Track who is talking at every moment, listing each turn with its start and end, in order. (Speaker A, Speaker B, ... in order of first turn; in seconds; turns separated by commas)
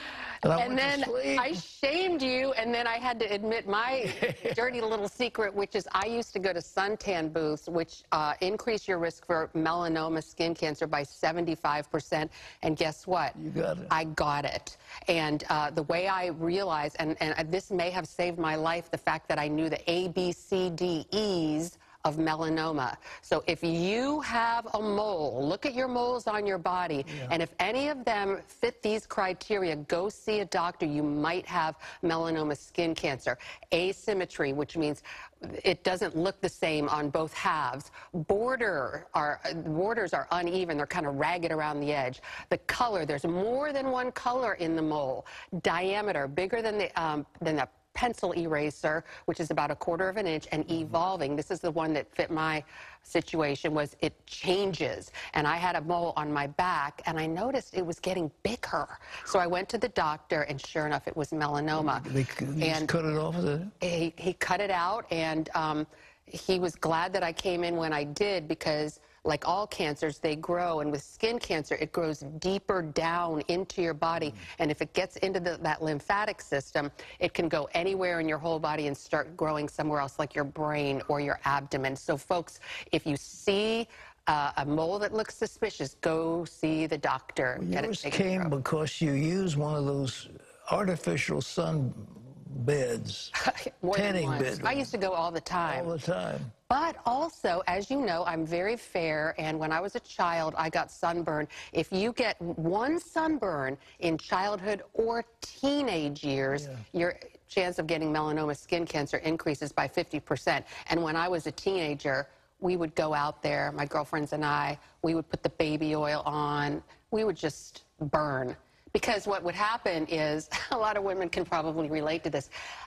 Speaker A: 0.4-1.6, Speaker B: 0.5-13.4, Speaker A: 4.1-4.7, Speaker A: 13.4-13.9, Speaker B: 13.9-62.9, Speaker A: 27.1-27.3, Speaker A: 61.8-63.7, Speaker B: 63.8-88.5, Speaker A: 87.6-93.3, Speaker B: 93.4-95.9, Speaker A: 93.9-94.9, Speaker A: 95.7-96.5, Speaker B: 96.7-122.5, Speaker A: 106.6-106.8